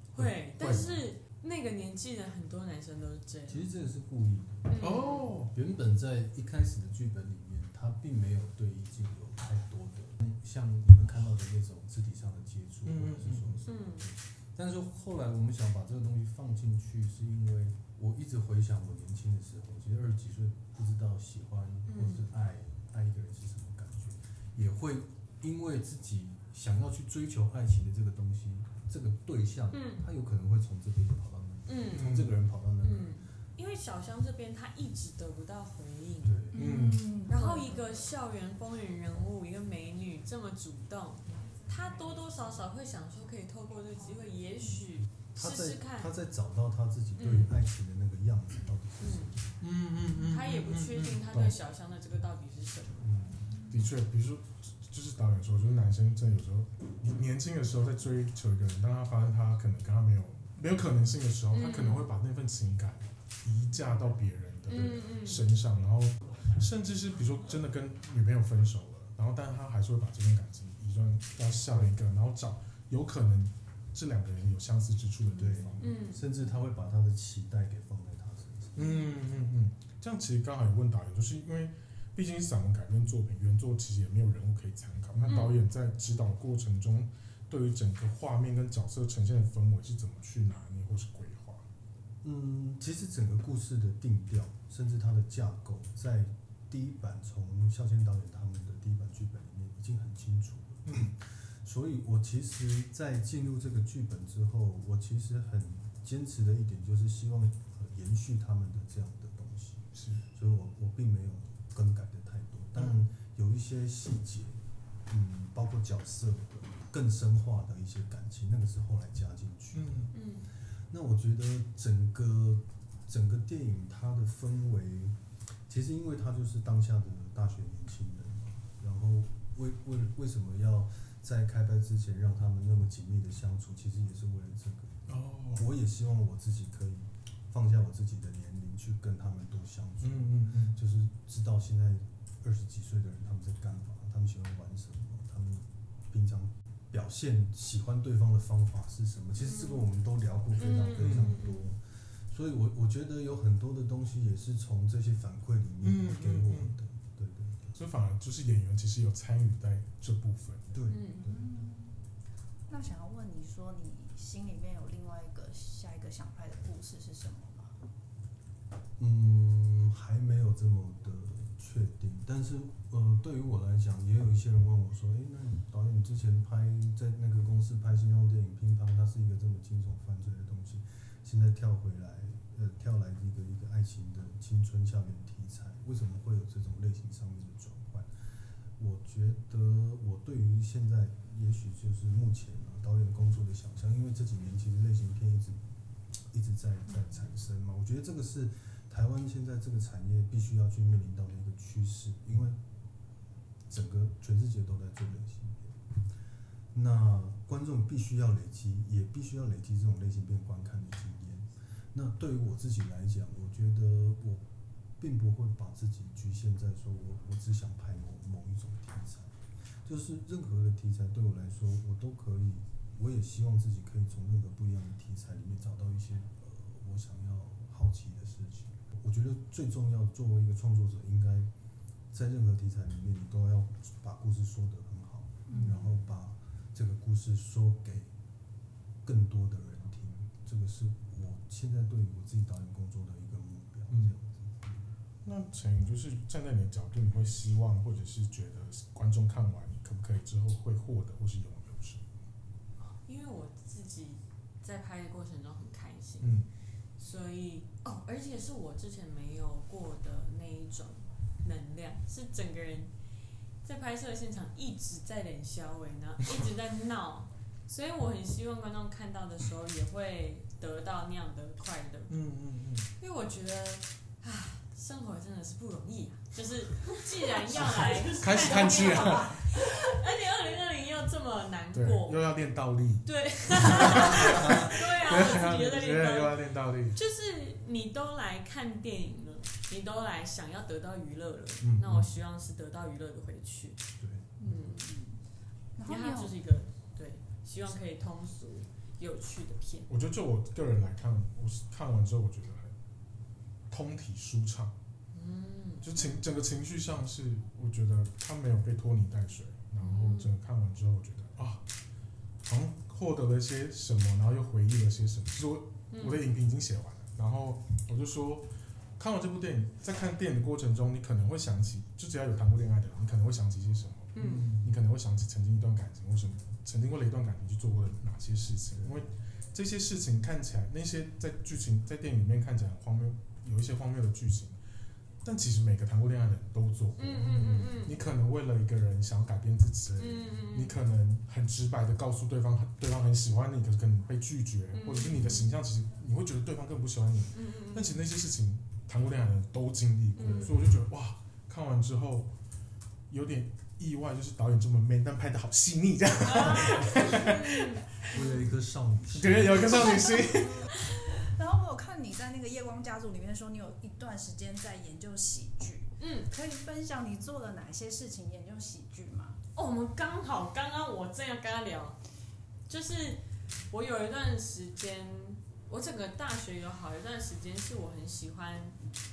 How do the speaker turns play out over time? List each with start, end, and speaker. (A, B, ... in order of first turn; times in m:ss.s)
0:00.1-0:03.6 A
0:00.2-0:01.0 B
0:03.5-0:33.2 B
0:04.7-0:05.3 A
0:04.8-0:05.5 C
0:12.8-0:13.6 C
0:13.6-0:14.1 A
0:21.9-0:22.3 A
0:29.7-0:30.0 A
0:31.6-0:32.1 A
0:32.0-0:32.3 C
0:32.8-0:36.4 A
0:36.2-0:36.9 B
0:36.5-0:38.0 D
0:36.5-0:37.1 C
0:37.3-0:46.1 A
0:45.4-0:49.6 B
0:47.2-0:47.5 A
0:49.0-0:49.4 A
0:49.6-0:51.6 C
0:50.2-0:53.1 A
0:53.0-0:53.5 B
0:53.6-1:15.8 C
1:01.5-1:02.1 A
1:04.7-1:05.5 A
1:11.7-1:11.9 B
1:15.3-1:18.9 B
1:15.8-1:16.2 A
1:18.8-1:31.6 C
1:25.1-1:25.4 B
1:25.3-1:25.6 A
1:32.2-1:54.6 B
1:49.9-1:50.2 C
1:55.1-2:00.1 B
1:59.7-2:00.1 C
2:00.1-2:00.5 A
2:00.9-2:05.1 B
2:05.7-2:37.8 B
2:15.1-2:15.6 C
2:20.0-2:20.8 C
2:29.4-2:29.9 A
2:30.6-2:31.7 A
2:31.0-2:31.4 C
2:35.8-2:36.8 C
2:37.8-2:40.8 C
2:40.7-2:41.6 B
2:40.9-2:41.2 A
2:41.1-2:42.0 D
2:42.7-2:47.8 D
2:49.0-3:08.1 B
3:08.8-3:15.6 B
3:16.3-3:22.6 B
3:23.7-3:25.8 B
3:26.7-3:34.4 B
3:35.0-3:51.5 B
3:52.1-3:58.1 B
3:55.5-3:55.9 D
3:59.0-4:04.9 B
4:05.2-4:12.0 C
4:12.9-4:16.3 A
4:16.2-4:16.5 C
4:17.0-4:22.9 A
4:23.6-4:32.1 A
4:32.1-4:32.9 C
4:33.0-4:42.2 A
4:37.5-4:39.8 C
4:41.7-4:47.0 C
4:43.0-4:46.4 A
4:46.9-4:53.8 A
4:51.6-4:52.1 B
4:54.0-4:54.4 B
4:54.4-4:55.2 D
4:54.5-4:54.9 A
4:55.8-4:56.4 D
4:55.9-4:59.9 A
4:59.9-5:02.7 C
5:03.7-5:04.7 C
5:05.1-5:05.9 A
5:05.8-5:11.6 C
5:09.8-5:10.3 A
5:12.4-5:34.6 C
5:15.9-5:16.2 A
5:24.1-5:24.5 A
5:24.2-5:24.7 B
5:28.7-5:29.1 B
5:35.2-5:52.3 C
5:37.0-5:38.0 A
5:40.0-5:40.8 A
5:44.7-5:45.5 A
5:47.3-5:48.0 A
5:50.1-5:50.6 A
5:53.1-5:58.2 C
5:56.2-5:58.3 A
5:58.1-5:59.8 B
5:59.1-6:00.7 C
6:00.3-6:09.4 D
6:06.0-6:06.3 A
6:09.5-6:12.0 A
6:12.7-6:18.8 A